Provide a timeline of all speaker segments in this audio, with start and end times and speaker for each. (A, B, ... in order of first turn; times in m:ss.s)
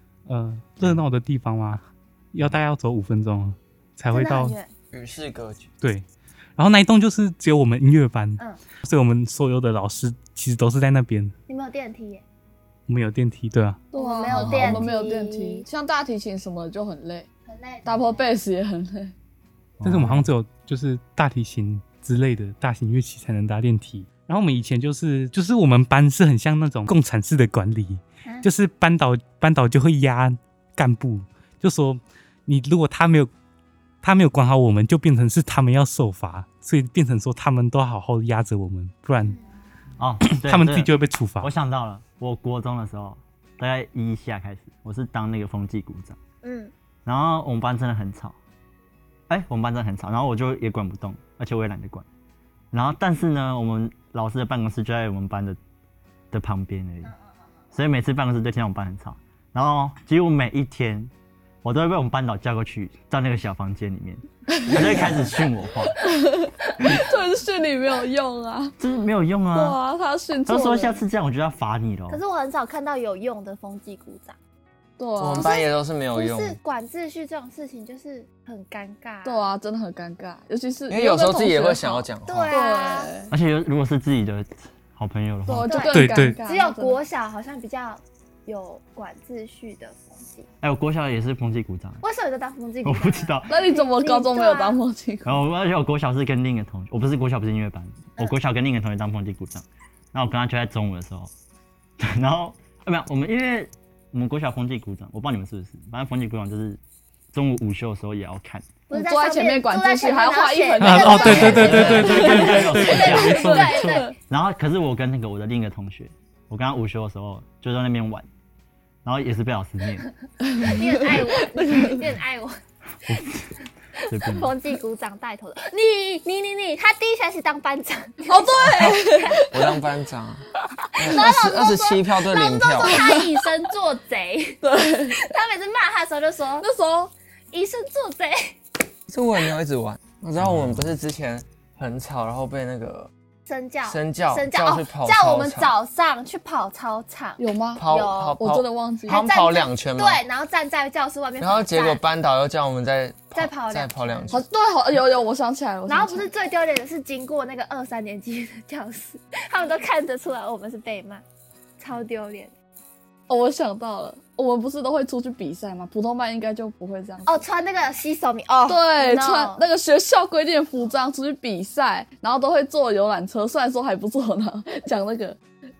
0:00.3-0:04.6 A
0:04.1-0:04.7 B
0:04.9-0:05.7 C
0:06.6-0:11.3 A
0:11.5-0:12.2 B
0:12.9-0:14.8 A
0:13.9-0:17.3 D
0:13.9-0:15.6 B
0:17.4-0:18.3 B
0:17.8-0:19.1 D
0:19.8-0:20.3 E
0:19.8-0:33.3 A
0:34.0-0:39.3 A
0:40.0-0:46.2 E
0:40.2-0:41.5 A
0:46.4-0:46.7 B
0:47.0-0:48.4 E
0:49.3-0:52.0 E
0:52.7-0:55.6 E
0:56.3-0:57.1 E
0:57.7-1:01.1 E
1:01.6-1:06.0 E
1:04.5-1:05.1 D
1:06.0-1:08.8 D
1:08.8-1:09.8 E
1:09.5-1:11.0 D
1:10.4-1:12.2 E
1:12.1-1:14.4 B
1:15.0-1:15.5 D
1:15.2-1:16.6 C
1:15.3-1:19.4 B
1:19.2-1:23.3 D
1:20.9-1:22.5 C
1:22.2-1:23.1 B
1:23.3-1:25.8 E
1:25.4-1:27.0 D
1:25.6-1:30.5 B
1:25.9-1:26.4 A
1:30.6-1:32.0 E
1:32.0-1:34.8 B
1:32.8-1:33.5 E
1:33.5-1:35.4 D
1:35.2-1:41.3 E
1:42.0-1:46.8 E
1:47.3-1:48.7 E
1:48.9-1:54.1 B
1:48.9-1:52.6 D
1:50.8-1:53.8 A
1:51.1-1:58.3 E
1:51.6-1:51.9 C
1:53.8-1:54.1 D
1:59.0-2:00.1 E
2:00.4-2:01.8 D
2:00.6-2:02.5 B
2:03.1-2:03.5 E
2:04.0-2:04.5 E
2:04.2-2:09.4 B
2:08.3-2:09.7 D
2:08.6-2:13.0 C
2:11.0-2:14.6 B
2:12.8-2:13.4 D
2:14.6-2:15.2 D
2:15.1-2:16.7 B
2:16.6-2:17.1 D
2:17.5-2:18.6 B
2:19.1-2:23.1 C
2:20.4-2:20.9 E
2:23.4-2:28.4 B
2:23.8-2:25.7 C
2:27.4-2:29.2 D
2:27.8-2:30.2 C
2:29.1-2:32.0 B
2:31.4-2:34.4 C
2:33.3-2:34.4 B
2:34.3-2:36.3 D
2:35.9-2:41.2 B
2:41.8-2:42.5 B
2:43.3-2:47.4 D
2:47.2-2:49.6 B
2:48.7-2:55.4 D